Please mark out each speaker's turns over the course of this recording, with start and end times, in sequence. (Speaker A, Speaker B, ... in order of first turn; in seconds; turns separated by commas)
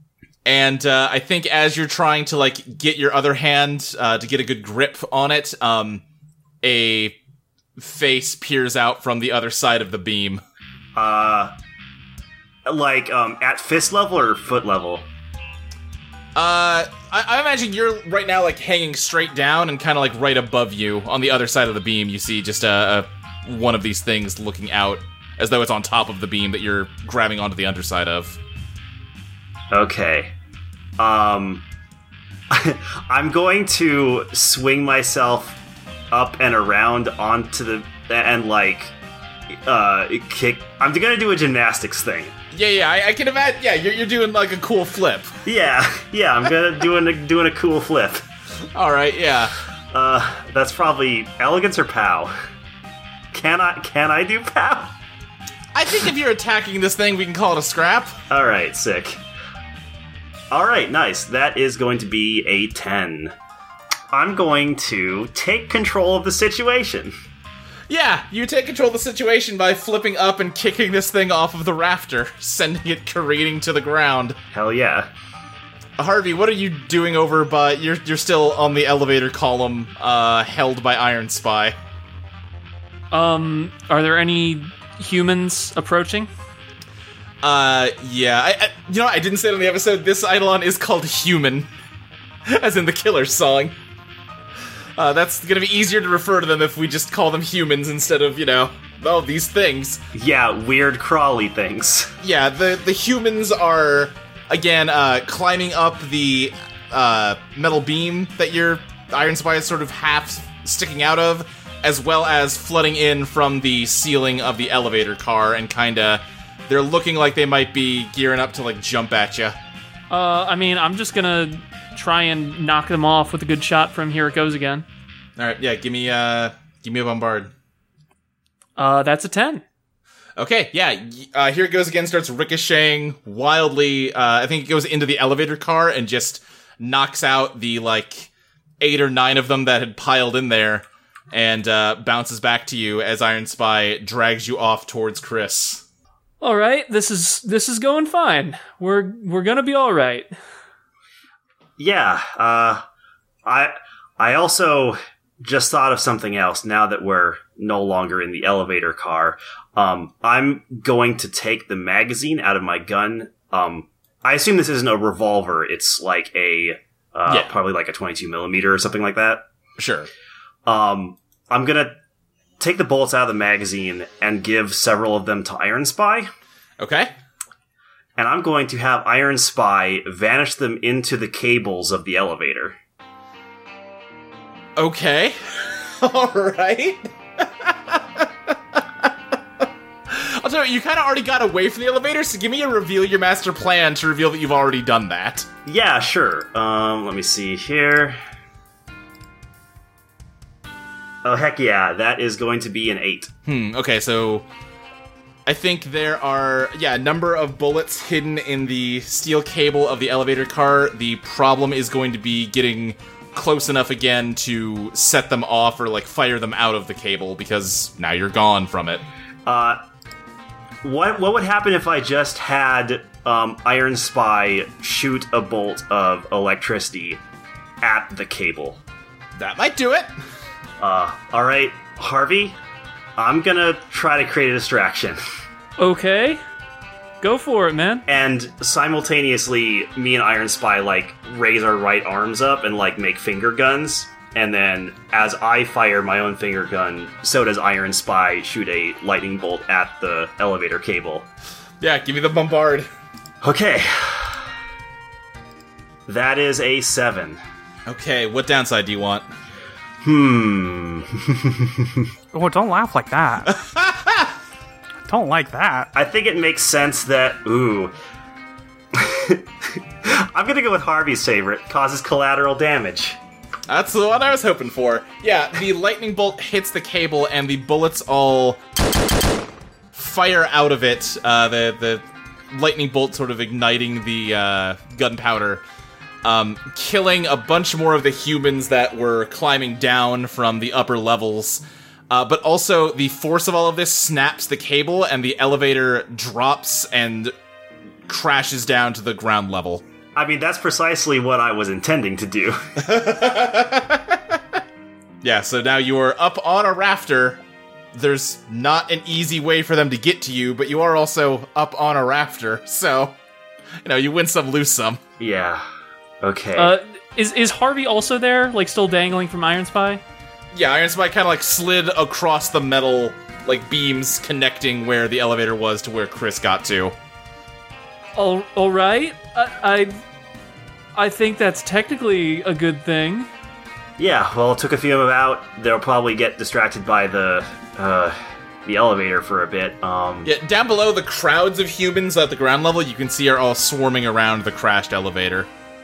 Speaker A: 0.4-6.0, Speaker A: 6.6-7.2, Speaker A: 7.8-10.4, Speaker B: 10.9-11.5, Speaker B: 12.7-15.1, Speaker A: 16.4-28.4, Speaker B: 29.7-30.3, Speaker B: 31.0-31.6, Speaker B: 32.5-35.6, Speaker B: 36.1-38.9, Speaker B: 39.5-42.3, Speaker A: 42.5-45.3, Speaker B: 45.5-48.2, Speaker A: 48.7-49.5, Speaker B: 49.9-52.3, Speaker B: 53.3-54.9, Speaker A: 55.7-58.2, Speaker B: 58.3-59.2, Speaker B: 60.5-63.3, Speaker B: 64.1-67.1, Speaker A: 67.9-74.4, Speaker B: 74.5-75.1, Speaker A: 76.0-81.8, Speaker C: 83.1-86.3, Speaker A: 87.4-91.7, Speaker A: 92.5-93.8, Speaker A: 95.0-100.0, Speaker B: 100.1-102.1, Speaker A: 102.2-119.6, Speaker C: 120.1-124.8, Speaker A: 125.4-127.5, Speaker C: 128.8-129.6, Speaker A: 130.4-138.3, Speaker A: 138.8-145.8, Speaker C: 146.4-150.3, Speaker B: 151.8-152.8, Speaker B: 153.4-169.4, Speaker A: 169.8-170.1, Speaker B: 170.7-171.9, Speaker B: 172.6-176.3, Speaker A: 176.8-177.1, Speaker B: 178.2-182.8, Speaker A: 184.8-189.1, Speaker A: 189.6-195.5, Speaker B: 195.7-198.2, Speaker B: 201.2-203.3, Speaker A: 203.5-204.4, Speaker A: 205.5-219.0, Speaker B: 219.4-219.8, Speaker B: 220.8-227.2, Speaker B: 227.8-228.8, Speaker A: 229.4-230.1, Speaker B: 230.8-232.6, Speaker B: 233.2-235.2, Speaker C: 235.8-236.4, Speaker C: 237.2-238.0, Speaker B: 238.1-251.3, Speaker A: 251.8-252.9, Speaker B: 253.4-254.4, Speaker B: 256.1-257.4, Speaker A: 257.9-259.2, Speaker B: 260.0-262.1, Speaker D: 262.3-263.6, Speaker A: 263.5-264.3, Speaker D: 265.1-265.9, Speaker B: 265.9-267.9, Speaker B: 268.9-273.2, Speaker A: 273.7-278.6, Speaker A: 279.9-285.6, Speaker A: 286.2-297.3, Speaker A: 298.1-299.8, Speaker B: 300.1-302.7, Speaker A: 302.8-304.4, Speaker A: 305.2-307.4, Speaker A: 307.9-313.1, Speaker A: 313.8-315.0, Speaker B: 315.2-315.6, Speaker B: 316.2-316.8, Speaker C: 316.6-320.0, Speaker A: 320.5-326.9, Speaker C: 328.1-330.0, Speaker C: 330.9-333.3, Speaker B: 334.0-340.3, Speaker A: 340.2-345.5